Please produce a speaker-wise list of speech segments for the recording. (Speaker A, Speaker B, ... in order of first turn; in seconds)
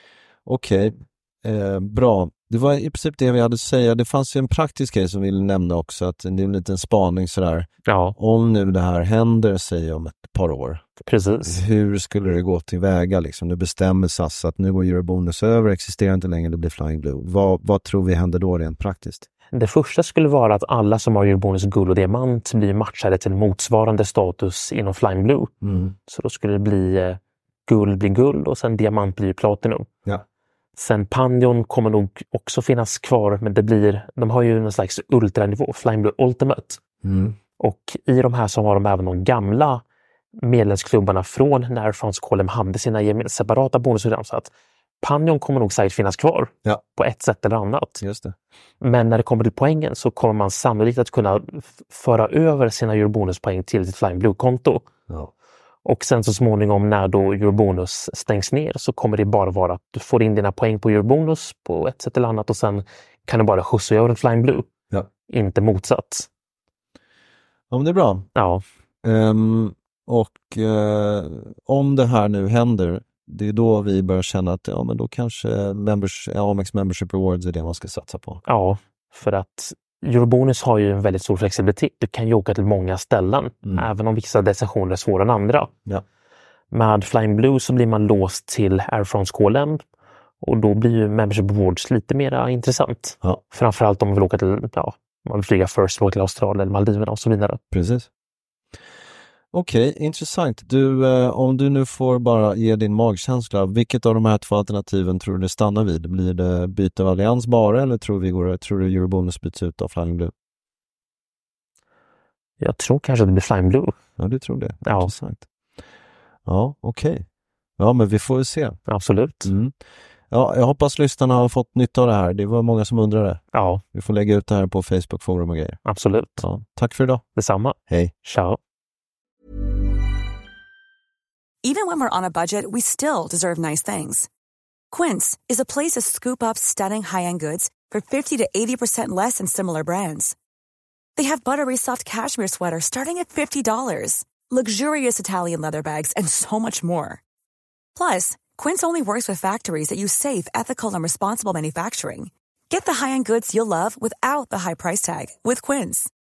Speaker A: 0.4-10.8, 11.4-19.3, 25.6-25.9, 37.0-37.4, 48.0-48.3, 67.7-68.3, 69.0-78.4, 97.7-98.1, 99.5-110.3, 114.2-115.5, 116.5-117.2, 117.8-118.8, 119.4-119.7, 120.3-123.4, 123.9-125.8, 126.4-127.2, 127.9-128.1
Speaker B: 7.8-8.2, 11.0-11.6, 19.5-25.5, 26.1-29.9, 30.8-36.8, 37.6-39.8, 40.4-48.0, 48.8-54.8, 55.8-64.7, 65.3-66.3, 68.3-68.6, 78.5-85.7, 86.7-89.8, 90.4-97.6, 112.6-113.9, 114.8-115.1, 118.9-119.5, 123.5-123.8, 125.8-126.5, 127.3-128.6
Speaker C: 131.6-134.3, 134.9-140.3, 141.2-147.2, 147.9-156.1